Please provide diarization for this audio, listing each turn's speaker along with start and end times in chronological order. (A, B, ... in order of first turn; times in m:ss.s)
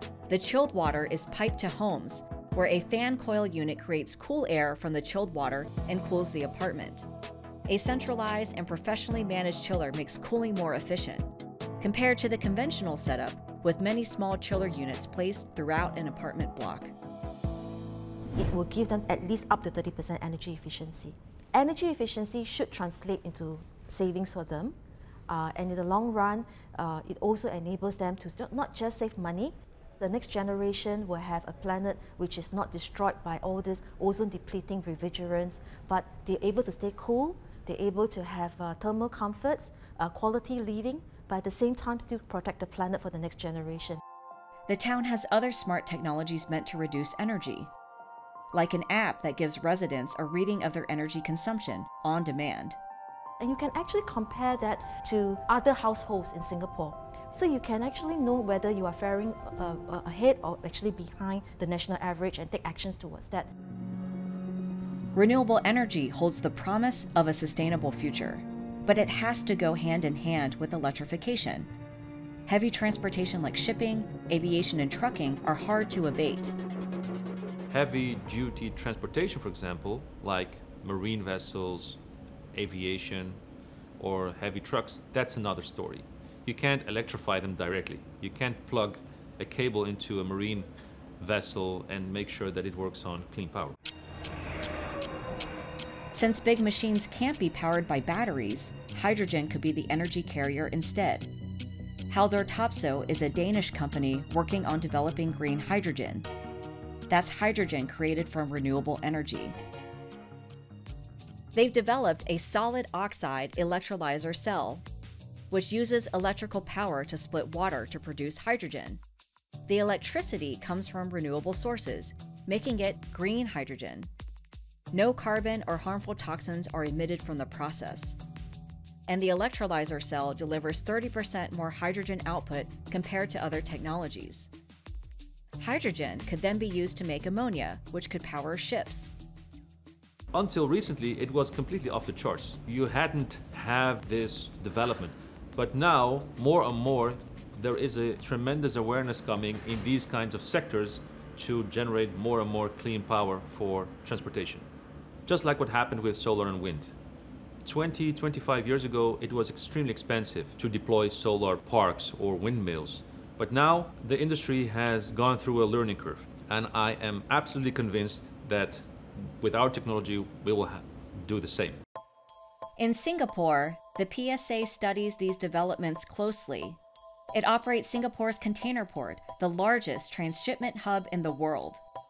0:00.3-0:07.1 A
0:07.7-0:11.3 A
0:11.8-0:16.9 A
0:18.4-0:24.8 B
0:25.3-0:44.0 B
0:44.7-0:47.7 A
0:48.5-0:52.8 A
0:53.4-1:03.5 B
1:05.1-1:11.7 A
1:12.5-1:16.6 A
1:17.7-1:22.0 C
1:22.5-1:23.4 C
1:24.0-1:30.7 C
1:31.2-1:33.8 C
1:36.1-1:41.3 A
1:42.1-1:46.3 A
1:47.1-1:49.6 A
1:51.5-1:54.8 A
1:55.5-1:59.0 A
1:59.7-2:04.1 A
2:04.9-2:08.2 A
2:09.1-2:14.5 A
2:15.6-2:19.1 A
2:20.3-2:34.7 C
2:35.3-2:36.9 C
2:37.6-2:51.8 C
2:52.8-2:56.8 A
2:57.3-3:01.8 A